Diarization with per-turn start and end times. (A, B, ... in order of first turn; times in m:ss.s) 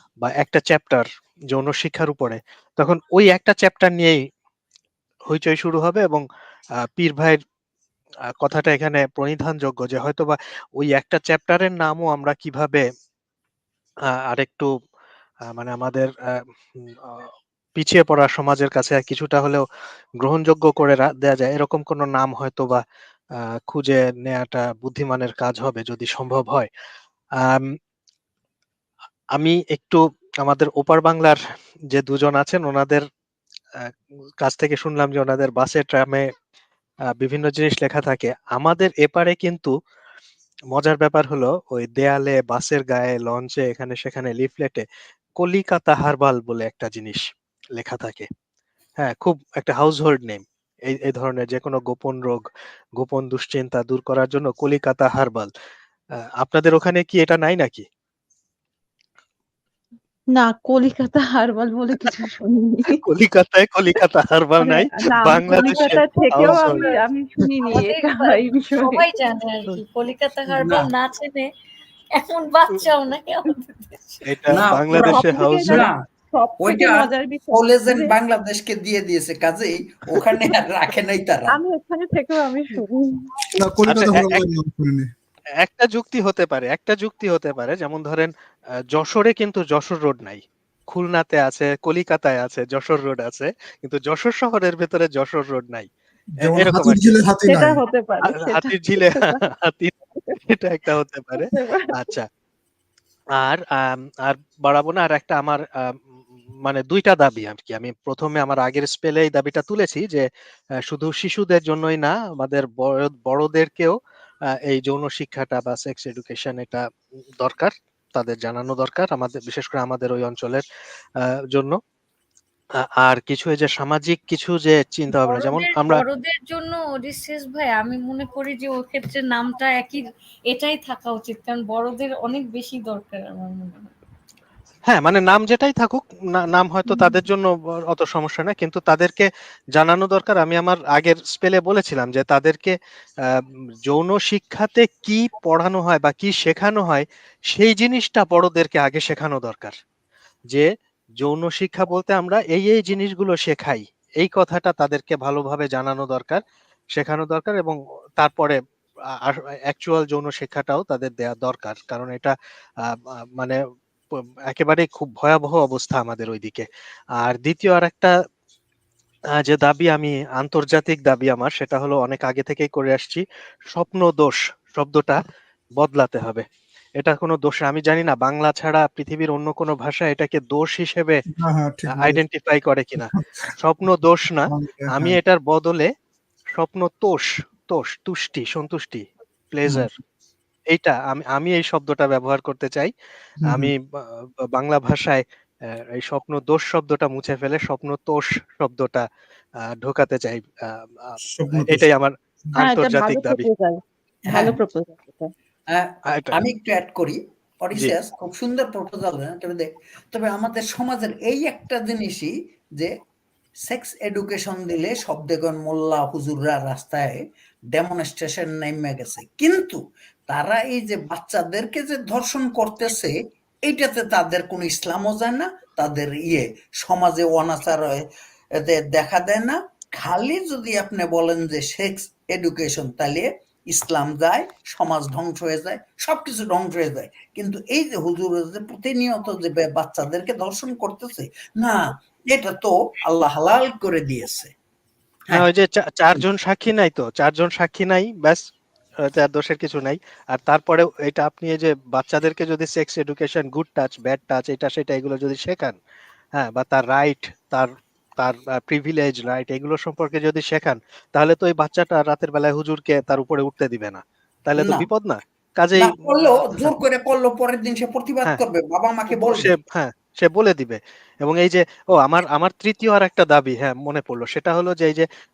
0:00.2-0:04.2 A
0:05.3-0:06.2 A
0:06.8-0:07.4 A
0:08.4-0:12.8 A
0:14.3-0:14.7 A
0:15.5-0:16.1 A
0:17.0-0:19.6 A
0:20.2-0:22.8 A
0:23.7-0:26.7 A
0:27.4-0:27.7 A
0:29.4-0:31.4 A
0:31.9-0:33.0 A
0:34.4-0:36.3 A
0:37.2-0:39.7 A
0:40.7-0:44.8 A
0:45.4-0:47.2 A
0:47.8-0:48.3 A
0:49.0-0:52.4 A
0:53.0-0:55.5 A
0:56.4-0:57.8 A
1:00.3-1:03.0 B
1:02.9-1:06.9 A
1:04.6-1:09.0 B
1:05.4-1:07.0 C
1:07.6-1:11.5 C
1:10.5-1:10.9 D
1:12.1-1:14.2 C
1:14.2-1:15.9 A
1:14.5-1:16.0 D
1:14.9-1:18.2 B
1:16.6-1:21.6 D
1:21.5-1:23.3 B
1:23.5-1:25.1 E
1:23.9-1:24.4 A
1:25.6-1:28.3 A
1:28.9-1:35.9 A
1:36.4-1:37.2 A
1:36.4-1:37.8 E
1:37.4-1:39.4 B
1:38.2-1:39.9 A
1:40.5-1:42.3 A
1:41.3-1:42.1 B
1:43.4-1:46.0 A
1:46.6-1:50.3 A
1:50.8-1:54.0 A
1:54.5-1:56.8 A
1:57.4-2:00.6 A
2:01.5-2:01.8 A
2:03.0-2:06.0 A
2:05.1-2:13.9 C
2:14.9-2:22.7 A
2:23.3-2:29.7 A
2:31.2-2:36.4 A
2:37.0-2:38.6 A
2:39.2-2:42.3 A
2:42.8-2:43.6 A
2:44.5-2:46.7 A
2:47.2-2:48.1 A
2:49.4-2:55.2 A
2:55.8-2:56.4 A
2:57.0-3:01.2 A
3:01.3-3:02.2 E
3:01.9-3:05.9 A
3:04.5-3:05.2 E
3:06.5-3:09.9 A
3:10.7-3:12.9 A
3:13.4-3:13.7 E
3:13.4-3:19.0 A
3:19.6-3:23.5 A
3:21.4-3:21.8 E
3:22.6-3:25.3 B
3:24.3-3:24.6 D
3:25.7-3:33.0 D
3:26.1-3:26.4 A
3:33.6-4:04.5 D
4:05.3-4:08.4 A
4:09.1-4:15.8 A
4:16.4-4:26.7 A
4:24.6-4:24.9 D
4:25.8-4:29.5 D
4:29.1-4:35.0 A